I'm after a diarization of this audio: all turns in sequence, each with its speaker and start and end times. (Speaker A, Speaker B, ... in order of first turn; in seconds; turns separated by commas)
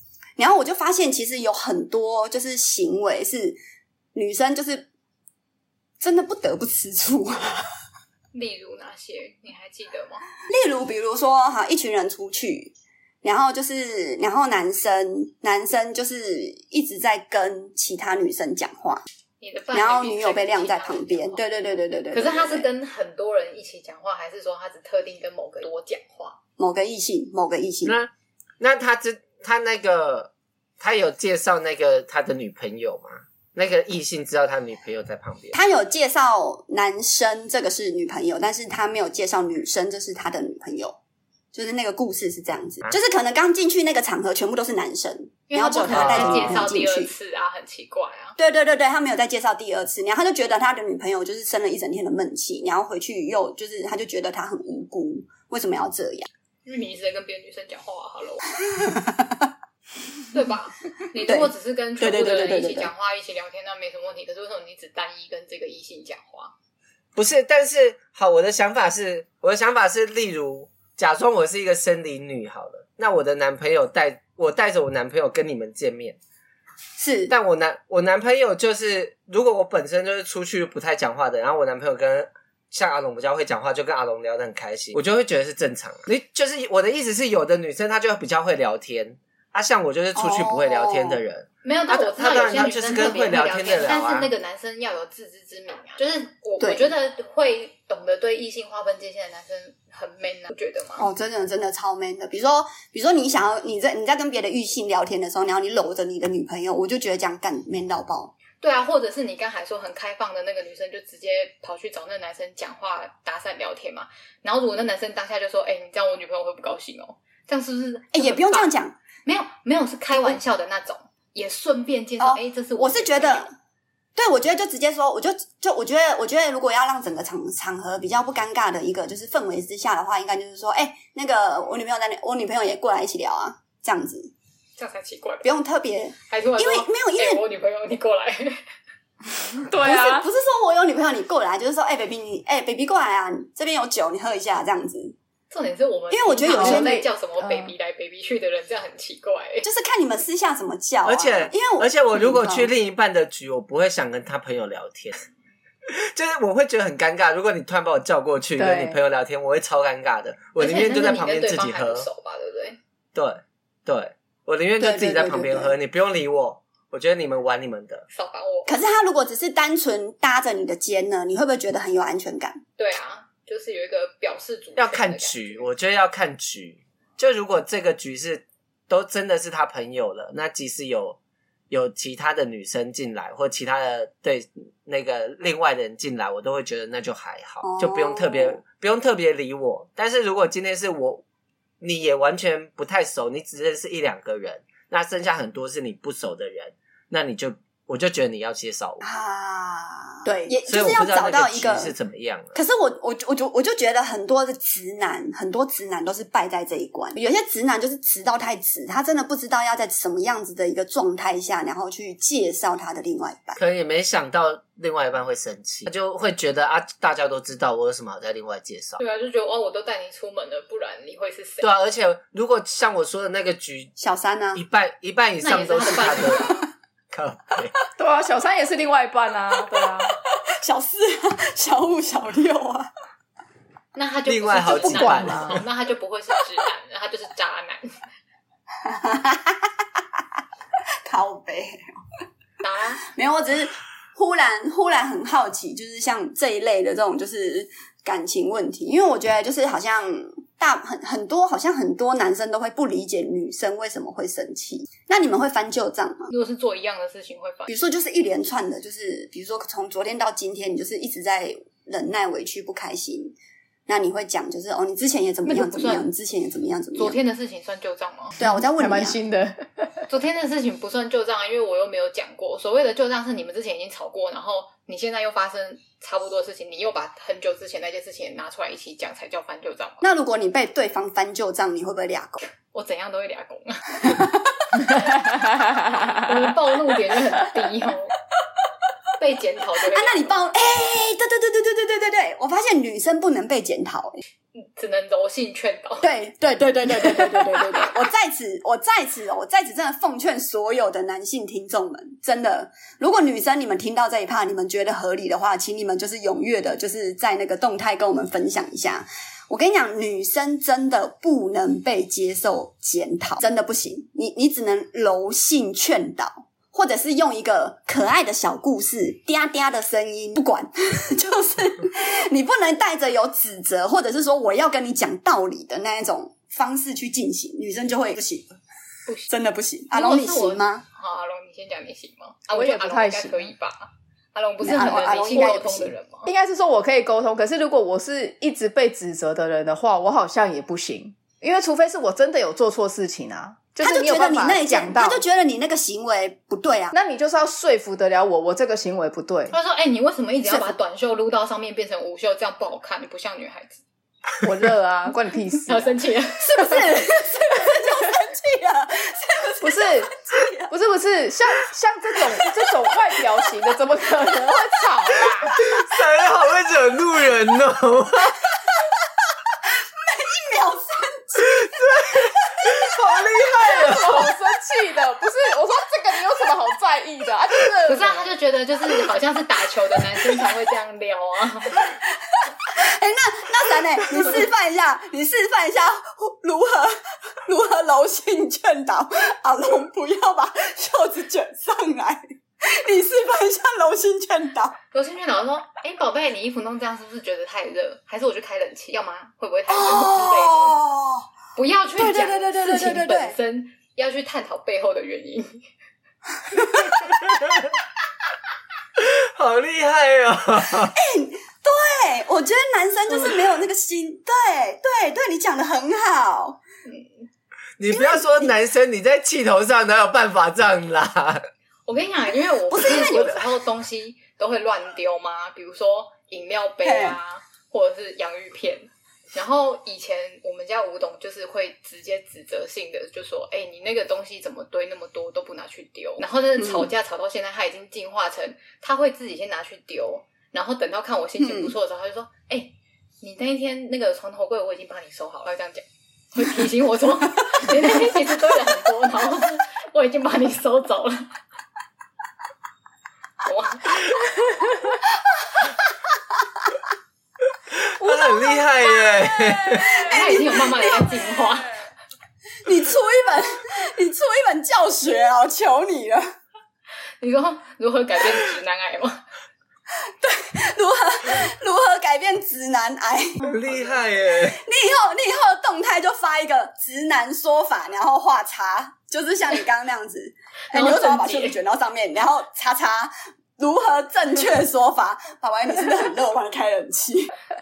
Speaker A: 0.4-3.6, Speaker A: 4.1-4.9, Speaker A: 6.0-7.7, Speaker B: 8.3-10.2, Speaker A: 10.5-19.0, Speaker B: 19.4-21.4, Speaker A: 19.7-22.7, Speaker B: 22.1-26.4, Speaker A: 26.6-27.9, Speaker C: 27.8-35.6, Speaker A: 35.5-41.0, Speaker A: 41.5-47.1, Speaker B: 45.5-48.4, Speaker C: 45.9-46.6, Speaker A: 48.4-56.3, Speaker B: 56.6-58.5, Speaker A: 58.7-59.5, Speaker B: 60.3-66.5, Speaker A: 61.1-62.9, Speaker C: 67.1-76.2, Speaker A: 77.0-77.3, Speaker C: 77.3-94.3, Speaker A: 90.1-91.2, Speaker B: 91.6-101.0, Speaker A: 96.6-96.9, Speaker A: 101.0-108.3, Speaker B: 108.6-118.7, Speaker A: 118.1-119.0, Speaker B: 119.2-123.5, Speaker A: 120.1-120.4, Speaker A: 122.2-123.5, Speaker A: 124.2-134.3, Speaker B: 134.8-135.5, Speaker A: 135.4-137.4, Speaker B: 136.3-138.7, Speaker D: 139.6-140.3, Speaker A: 139.8-145.2, Speaker B: 145.5-149.7, Speaker A: 146.1-147.0, Speaker D: 146.4-147.7, Speaker A: 149.6-152.7, Speaker C: 151.0-155.2, Speaker C: 155.9-162.1, Speaker D: 158.6-159.0, Speaker B: 160.6-162.8, Speaker C: 163.1-168.0, Speaker A: 164.8-165.7, Speaker B: 168.1-168.7, Speaker A: 168.7-172.6, Speaker B: 172.8-175.7, Speaker C: 174.8-181.2, Speaker C: 181.7-191.2, Speaker A: 187.6-188.6, Speaker C: 191.8-199.0, Speaker A: 199.0-201.9, Speaker C: 200.7-202.5, Speaker A: 202.5-213.6, Speaker C: 213.6-219.0, Speaker B: 219.0-221.7, Speaker C: 221.6-223.9, Speaker A: 224.0-224.6, Speaker C: 224.5-226.6, Speaker B: 225.4-226.6, Speaker C: 227.1-227.8, Speaker D: 228.0-230.2, Speaker A: 230.3-232.9, Speaker B: 233.9-238.0, Speaker C: 234.3-235.6, Speaker D: 234.8-235.6, Speaker A: 238.8-240.2, Speaker A: 241.0-241.9, Speaker B: 242.6-243.0, Speaker A: 243.0-256.3, Speaker B: 256.3-257.7, Speaker A: 257.7-263.3, Speaker A: 263.9-267.2, Speaker B: 265.4-266.1, Speaker B: 266.9-268.4, Speaker A: 268.4-269.2, Speaker D: 268.4-270.0, Speaker B: 270.1-280.0, Speaker A: 280.0-282.4, Speaker B: 282.5-284.2, Speaker A: 284.0-284.4, Speaker B: 285.9-288.1, Speaker B: 289.2-290.5, Speaker A: 289.8-294.2, Speaker B: 294.5-296.1, Speaker A: 296.0-328.6, Speaker B: 296.9-297.9, Speaker A: 329.3-330.8, Speaker B: 329.9-336.3, Speaker D: 332.5-333.5, Speaker A: 334.6-335.9, Speaker D: 334.6-335.5, Speaker D: 336.3-345.2, Speaker A: 343.8-346.9, Speaker D: 346.9-349.5, Speaker B: 349.5-353.8, Speaker A: 350.4-350.8, Speaker D: 354.4-355.9, Speaker B: 355.6-357.0, Speaker A: 356.4-360.7, Speaker D: 359.6-365.6, Speaker A: 362.3-362.6, Speaker A: 364.5-365.7, Speaker C: 365.6-368.4, Speaker A: 368.5-368.8, Speaker A: 369.6-372.9, Speaker C: 371.4-374.3, Speaker D: 373.6-378.3, Speaker A: 373.6-373.9, Speaker B: 377.9-381.9, Speaker A: 382.2-394.8, Speaker B: 394.9-400.7, Speaker A: 399.7-401.3, Speaker B: 401.6-405.6, Speaker A: 402.0-403.4, Speaker A: 406.5-407.2, Speaker C: 409.0-410.9, Speaker A: 410.8-416.6, Speaker B: 416.9-417.3, Speaker C: 417.8-421.4, Speaker A: 417.9-418.5, Speaker B: 421.9-451.3, Speaker A: 422.7-423.4, Speaker A: 426.8-427.2, Speaker A: 436.6-436.9, Speaker A: 441.4-441.7, Speaker B: 453.4-454.1, Speaker C: 457.7-460.0, Speaker A: 458.0-461.2, Speaker B: 460.0-461.9, Speaker A: 462.6-466.2, Speaker B: 467.2-469.2, Speaker A: 470.0-473.8, Speaker C: 473.4-474.6, Speaker A: 474.4-487.3, Speaker B: 480.7-481.6